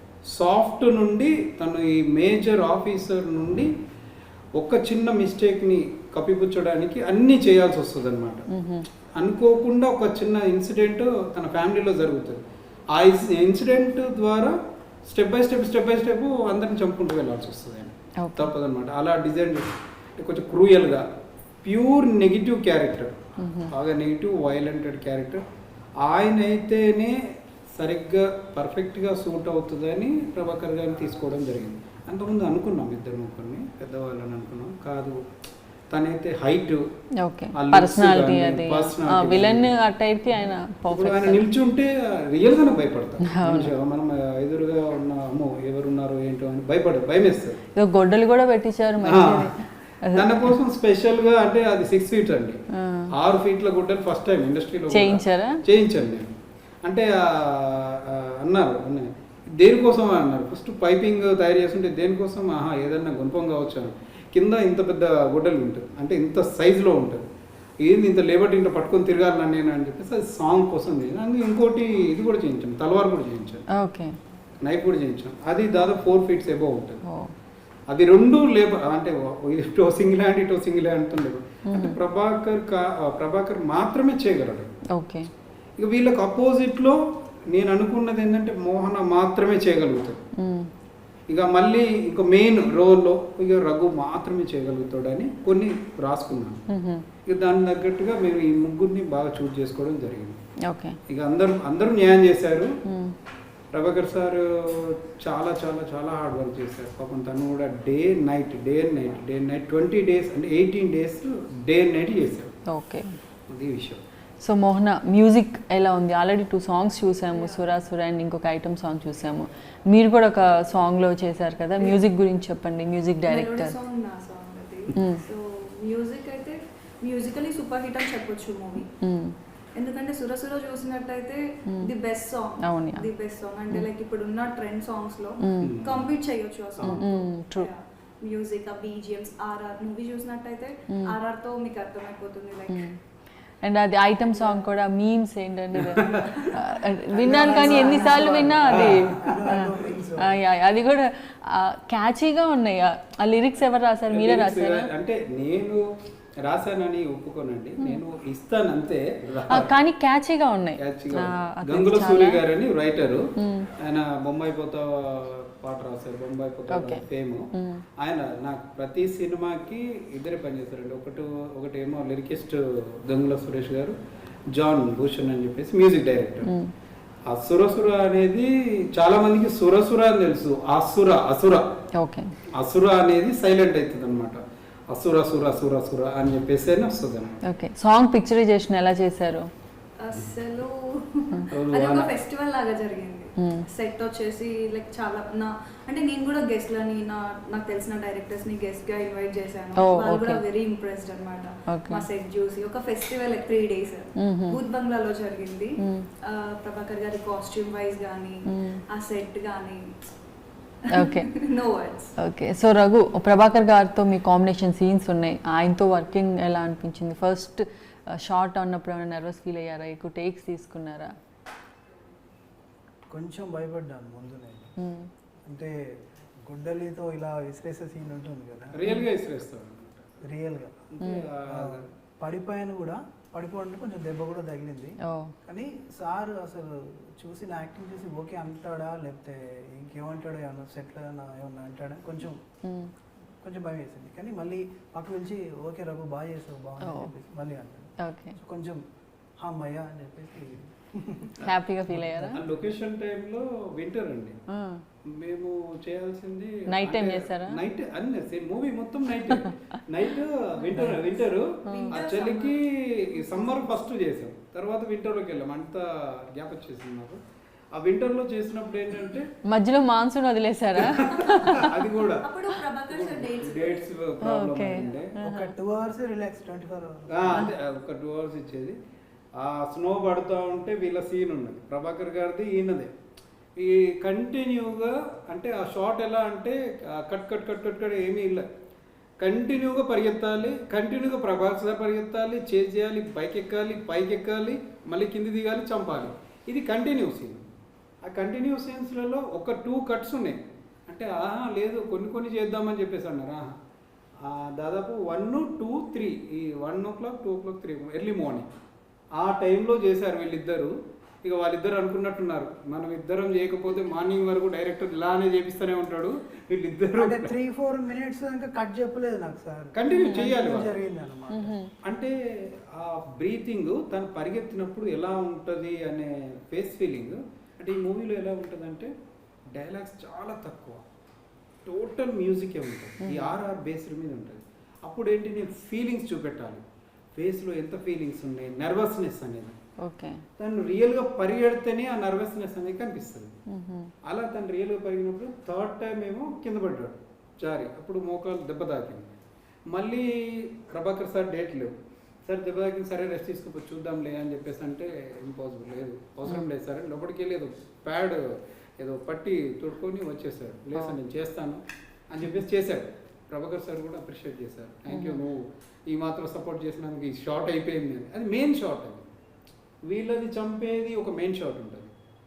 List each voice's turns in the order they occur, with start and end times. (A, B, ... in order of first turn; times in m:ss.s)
0:00.3-0:03.7 A
0:04.6-0:08.5 A
0:08.5-0:08.9 B
0:09.2-0:21.1 A
0:18.2-0:18.5 B
0:21.6-0:25.4 A
0:23.4-0:23.7 B
0:26.0-0:35.2 A
0:35.9-0:36.8 A
0:37.2-0:41.4 B
0:37.6-0:39.7 A
0:40.9-0:47.6 A
0:43.3-0:43.7 B
0:47.8-0:50.6 B
0:49.0-0:49.5 A
0:50.1-0:52.6 A
0:52.7-0:53.1 B
0:53.1-0:56.3 A
0:54.9-0:55.6 B
0:56.8-1:07.3 A
1:07.8-1:13.6 A
1:13.7-1:14.2 B
1:14.6-1:17.0 A
1:17.0-1:17.3 B
1:17.9-1:24.7 A
1:21.7-1:22.0 B
1:24.9-1:25.3 B
1:25.8-1:30.2 A
1:30.4-1:30.7 B
1:31.3-1:36.6 A
1:36.7-1:37.0 B
1:37.3-1:40.4 A
1:40.6-1:41.0 B
1:41.1-1:42.7 A
1:42.8-1:43.2 B
1:43.7-1:52.5 A
1:52.7-1:53.2 B
1:53.5-1:54.0 A
1:54.4-2:03.7 B
1:57.3-1:57.6 C
2:03.3-2:08.9 C
2:04.9-2:05.2 B
2:09.0-2:09.4 B
2:09.8-2:22.9 C
2:12.6-2:13.1 B
2:15.4-2:15.8 B
2:15.6-2:16.1 A
2:16.8-2:17.7 B
2:20.9-2:21.1 B
2:23.6-2:34.9 B
2:24.3-2:24.6 C
2:25.8-2:26.5 A
2:26.0-2:26.6 C
2:27.2-2:30.4 D
2:27.3-2:28.9 C
2:28.7-2:29.2 A
2:34.1-2:35.8 A
2:36.4-2:39.7 A
2:39.5-2:42.4 B
2:40.8-2:54.0 A
2:43.4-2:43.7 B
2:46.7-2:47.8 B
2:54.5-2:56.5 A
2:56.4-2:56.7 B
2:57.3-3:01.7 A
3:02.0-3:02.3 B
3:02.5-3:07.4 A
3:07.4-3:09.5 B
3:10.0-3:29.9 C
3:11.5-3:12.1 A
3:13.4-3:13.7 B
3:19.8-3:20.4 B
3:21.7-3:22.1 B
3:24.2-3:24.6 B
3:25.8-3:26.1 B
3:28.5-3:28.8 B
3:30.8-3:32.2 C
3:30.9-3:31.3 B
3:32.2-3:41.2 B
3:43.1-3:44.7 D
3:44.8-3:45.1 B
3:45.5-3:48.9 D
3:48.7-3:50.0 A
3:50.2-3:50.9 D
3:50.9-3:51.9 A
3:51.0-3:51.3 B
3:51.4-4:02.4 D
3:55.0-3:55.4 B
4:02.6-4:02.9 B
4:03.4-4:08.8 D
4:06.8-4:07.1 B
4:08.0-4:08.4 B
4:09.4-4:11.4 D
4:11.4-4:12.4 B
4:11.9-4:14.4 A
4:14.5-4:14.8 B
4:15.0-4:27.2 A
4:16.7-4:17.6 B
4:20.7-4:23.8 C
4:21.7-4:21.9 B
4:27.7-4:29.3 A
4:29.4-4:31.8 B
4:30.8-4:32.3 A
4:31.1-4:34.0 C
4:32.9-4:35.2 A
4:34.2-4:35.5 B
4:35.2-4:37.4 D
4:37.1-4:38.8 A
4:39.4-4:42.9 A
4:43.6-4:48.5 A
4:49.2-4:57.5 A
4:58.0-5:03.6 A
5:04.2-5:08.5 A
5:09.2-5:17.3 A
5:16.9-5:21.6 D
5:19.7-5:20.7 A
5:19.9-5:20.3 B
5:21.3-5:21.7 B
5:21.8-5:28.9 A
5:29.5-5:30.8 A
5:31.7-5:36.6 A
5:33.0-5:33.3 B
5:37.2-5:39.6 A
5:39.8-5:40.2 B
5:40.4-5:43.3 A
5:43.5-5:43.9 B
5:44.1-5:49.1 A
5:49.7-6:09.1 A
6:04.9-6:05.2 B
6:09.8-6:11.9 A